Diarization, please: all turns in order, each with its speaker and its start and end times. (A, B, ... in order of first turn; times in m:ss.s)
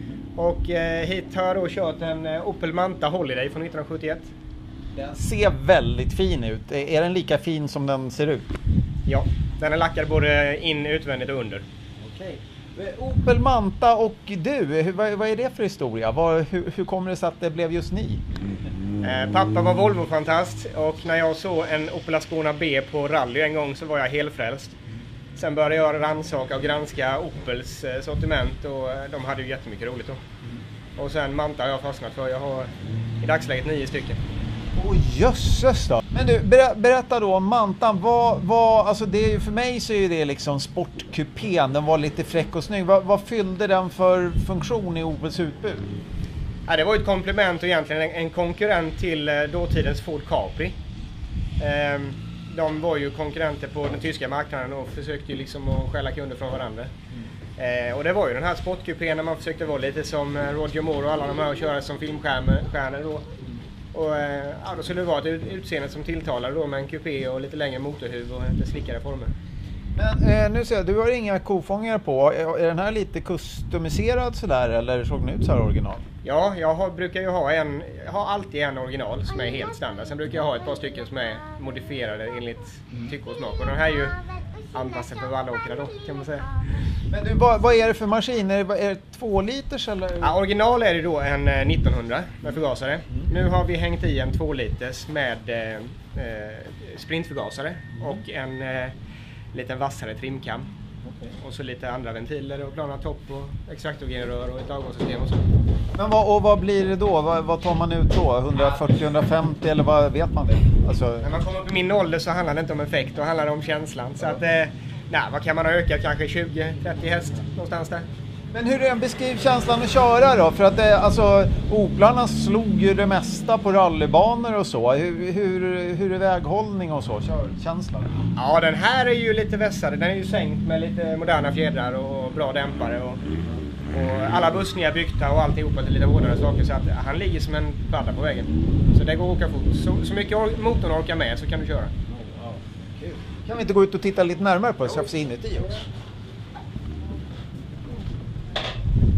0:00.4-0:04.3 A
0:04.9-0:08.5 B
0:09.1-0:11.6 A
0:12.0-0:18.2 B
0:19.0-0:24.8 A
0:25.4-0:30.2 A
0:31.0-0:34.2 A
0:34.8-0:45.9 B
0:46.7-0:50.8 A
0:51.6-0:56.9 A
0:57.6-1:03.3 A
1:03.9-1:09.3 A
1:10.0-1:16.0 B
1:16.2-1:26.5 A
1:27.1-1:30.4 B
1:30.2-1:39.0 A
1:39.5-1:40.7 A
1:41.0-1:41.4 B
1:41.4-1:45.4 A
1:46.0-1:51.3 B
1:51.2-1:58.1 A
1:58.5-2:08.2 B
2:08.4-2:13.2 A
2:13.9-2:21.9 A
2:22.1-2:25.8 B